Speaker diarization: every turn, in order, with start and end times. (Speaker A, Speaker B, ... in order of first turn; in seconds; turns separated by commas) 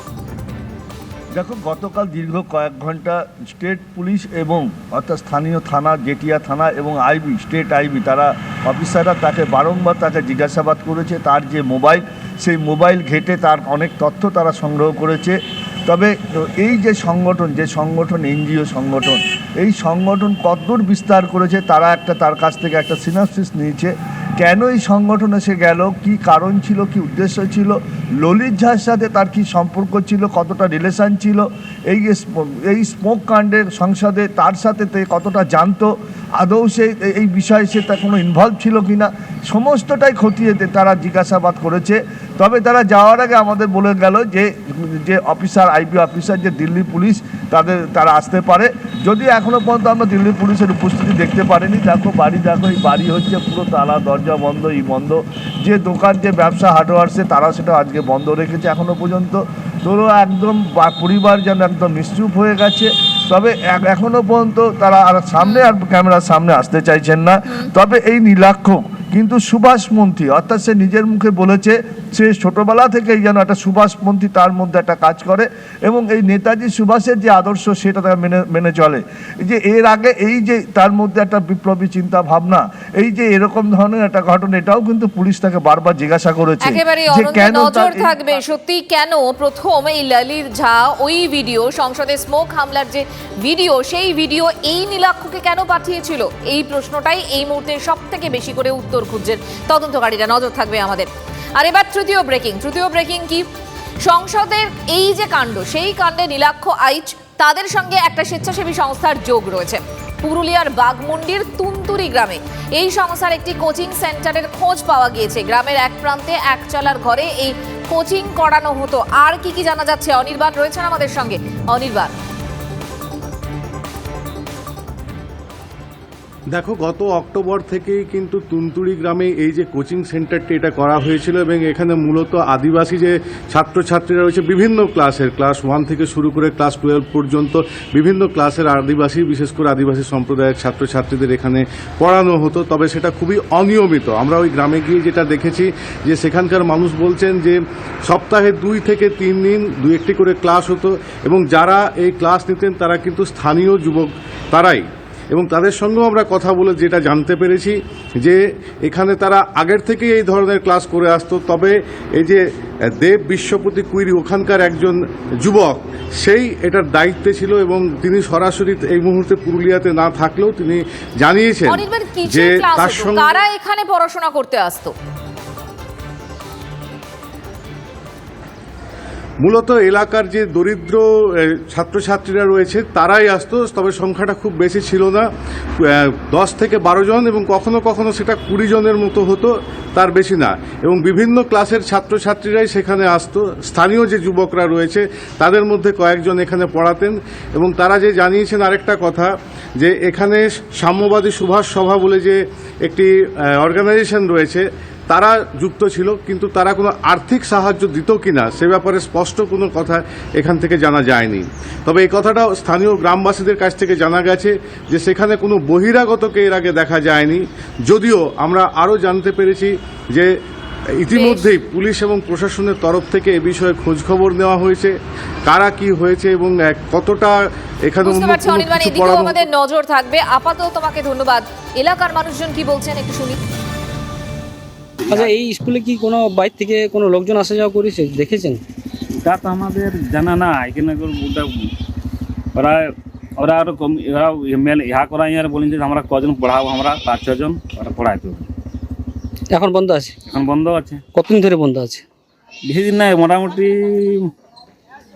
Speaker A: 1.3-88.2, Speaker B: 65.4-65.7, Speaker B: 86.7-103.5, Speaker B: 104.0-122.1, Speaker C: 126.5-162.4, Speaker C: 163.0-173.3, Speaker B: 171.7-174.9, Speaker C: 179.4-185.3, Speaker C: 185.8-220.3, Speaker C: 221.0-224.9, Speaker B: 221.1-221.5, Speaker C: 225.5-229.4, Speaker B: 228.0-233.4, Speaker D: 235.1-235.3, Speaker E: 235.1-238.6, Speaker D: 239.2-241.7, Speaker D: 242.6-248.5, Speaker E: 249.5-250.2, Speaker D: 250.3-251.0, Speaker E: 251.1-252.1, Speaker D: 252.7-254.3